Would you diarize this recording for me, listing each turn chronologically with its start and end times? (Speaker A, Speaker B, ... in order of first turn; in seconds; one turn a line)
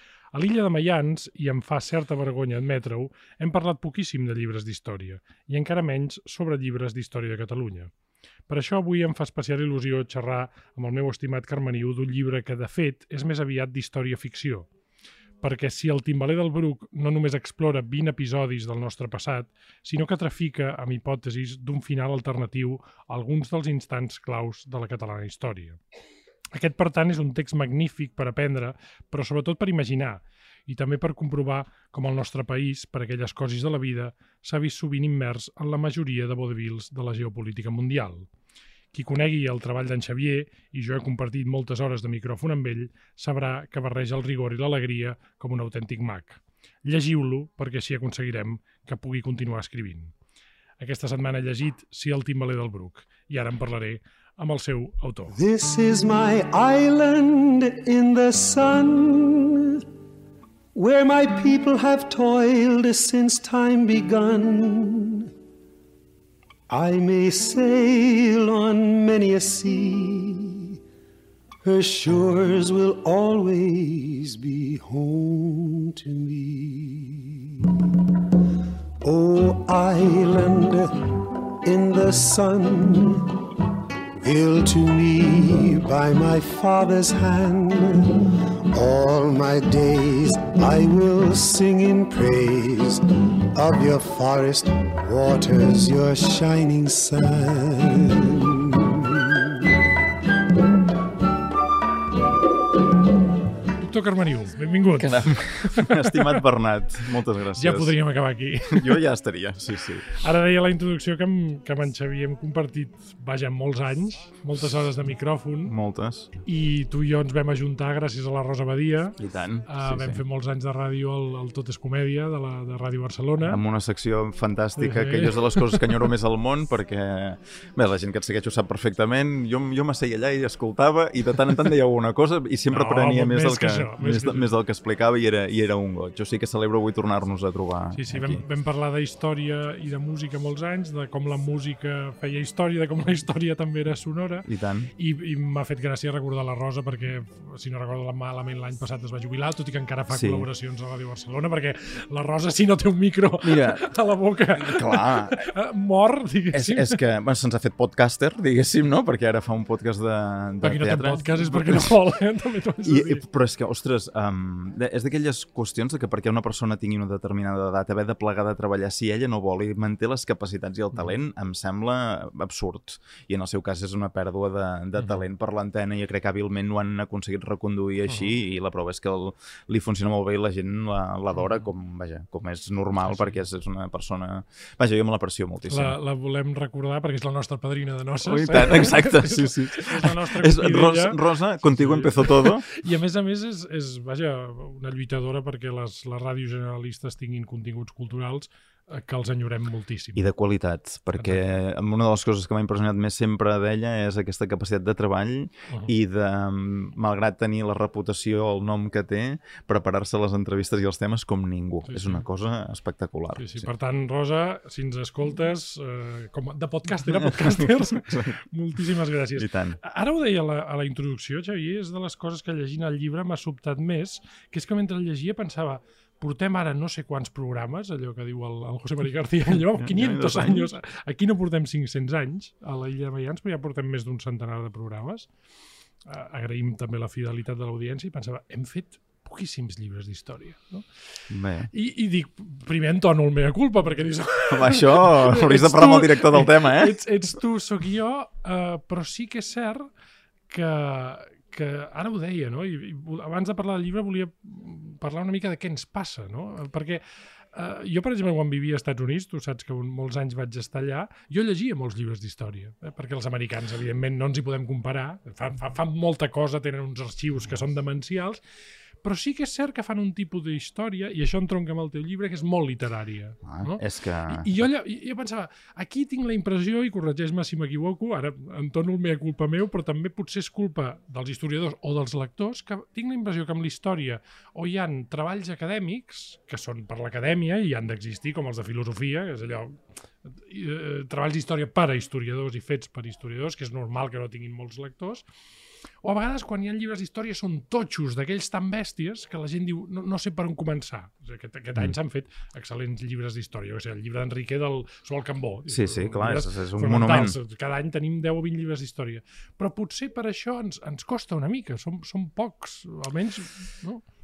Speaker A: 0.3-7.9
Speaker A: 8.5-14.7
Speaker A: 15.4-25.8
Speaker A: 26.5-38.3
Speaker A: 38.9-50.1
Speaker A: 50.8-55.4
Speaker B: 55.3-59.8
Speaker B: 60.7-65.3
Speaker B: 66.7-70.8
Speaker B: 71.6-78.2
Speaker B: 79.0-81.0
Speaker B: 81.6-83.4
Speaker B: 84.2-99.5
Speaker A: 103.8-106.4
Speaker C: 105.0-107.9
Speaker A: 107.5-109.0
Speaker C: 108.7-110.1
Speaker A: 110.1-115.7
Speaker C: 115.7-116.3
Speaker A: 116.5-123.6
Speaker C: 119.2-120.2
Speaker C: 123.4-138.4
Speaker A: 124.8-125.9
Speaker A: 132.7-134.5
Speaker A: 137.9-157.0
Speaker C: 144.4-144.9
Speaker C: 150.1-150.5
Speaker C: 153.4-153.8
Speaker C: 154.6-155.4
Speaker C: 156.5-162.0
Speaker A: 160.6-163.2
Speaker C: 162.8-185.9
Speaker A: 183.0-183.4
Speaker A: 185.7-200.3
Speaker C: 188.2-192.7
Speaker C: 200.2-213.7
Speaker A: 211.9-212.2
Speaker A: 213.3-235.3
Speaker C: 217.1-218.3
Speaker C: 219.3-219.8
Speaker C: 229.7-230.7
Speaker A: 236.0-240.8
Speaker C: 241.3-241.7
Speaker A: 241.7-249.9
Speaker C: 244.5-247.0
Speaker A: 250.5-257.0
Speaker A: 257.5-268.4
Speaker A: 269.0-295.2
Speaker C: 273.4-274.5
Speaker A: 296.0-314.0
Speaker C: 305.7-307.4